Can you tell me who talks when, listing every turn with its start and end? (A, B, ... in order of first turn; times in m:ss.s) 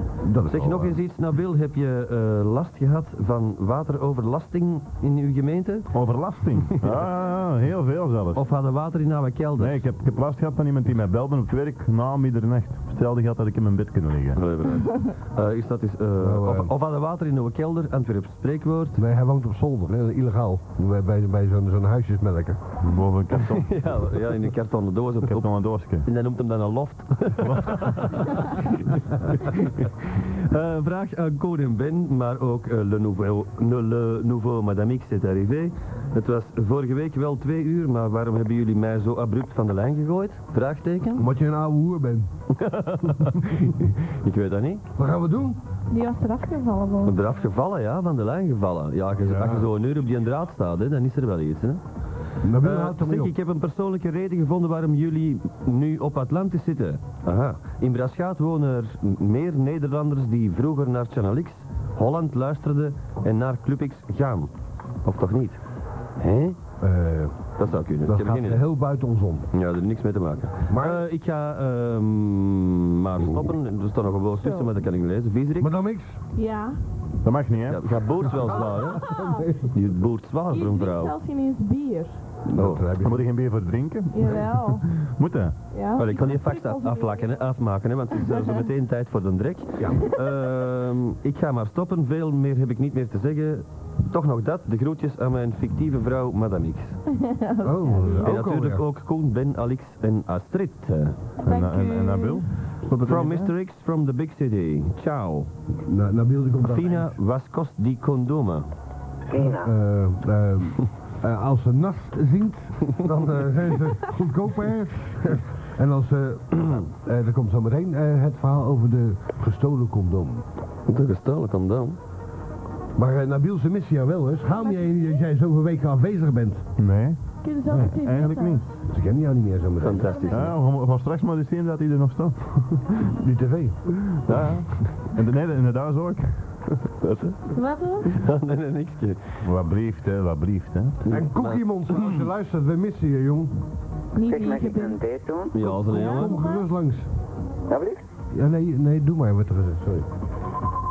0:00.2-0:01.0 A
0:00.5-0:06.0 B
0:05.9-0:08.4 C
0:06.6-0:07.0 B
0:08.3-0:09.9 B
0:09.6-0:14.4 C
0:14.4-0:19.0 B
0:16.2-0:16.7 A
0:19.0-0:22.8 A
0:22.8-0:24.0 C
0:23.5-0:25.5 B
0:25.2-0:26.1 C
0:26.0-0:41.3 B
0:27.4-0:28.2 C
0:41.2-0:42.3 A
0:42.6-0:43.5 B
0:43.4-0:43.9 A
0:44.2-0:44.8 B
0:45.0-0:45.6 A
0:45.9-0:47.2 D
0:47.0-0:51.8 B
0:49.2-0:49.7 A
0:52.4-0:53.3 A
0:52.6-1:04.5 B
1:05.0-1:05.6 B
1:06.2-1:06.6 B
1:06.8-1:07.5 A
1:07.6-1:08.6 B
1:08.0-1:09.5 A
1:09.5-1:15.7 B
1:10.7-1:11.0 A
1:14.4-1:14.7 D
1:15.6-1:16.2 A
1:16.4-1:16.8 D
1:17.2-1:18.3 C
1:17.7-1:19.1 B
1:18.6-1:19.7 A
1:18.6-1:19.5 D
1:19.7-1:21.2 B
1:20.5-1:22.2 D
1:22.5-1:23.2 A
1:22.6-1:22.8 B
1:23.0-1:25.6 C
1:24.1-1:24.9 D
1:25.7-1:27.4 D
1:26.0-1:37.0 B
1:29.8-1:30.0 A
1:37.2-1:38.4 D
1:37.6-1:38.8 A
1:38.2-1:41.2 B
1:41.4-1:42.7 D
1:41.4-1:43.5 C
1:43.0-1:45.5 B
1:45.8-1:47.2 A
1:46.6-1:48.7 B
1:49.3-1:49.7 E
1:49.4-2:00.4 A
2:00.9-2:02.0 B
2:03.0-2:06.7 A
2:04.4-2:05.2 D
2:06.8-2:08.6 C
2:07.4-2:08.8 D
2:08.9-2:10.3 A
2:09.8-2:10.5 B
2:10.0-2:10.6 D
2:10.3-2:13.1 C
2:13.2-2:14.1 A
2:14.3-2:14.7 B
2:15.0-2:17.2 C
2:17.5-2:18.1 D
2:18.1-2:19.4 B
2:19.4-2:21.0 C
2:21.0-2:22.2 B
2:21.1-2:23.7 A
2:24.1-2:25.0 D
2:24.2-2:25.8 E
2:25.5-2:26.4 B
2:25.8-2:26.7 D
2:25.9-2:27.1 A
2:27.7-2:28.0 E
2:28.3-2:30.1 A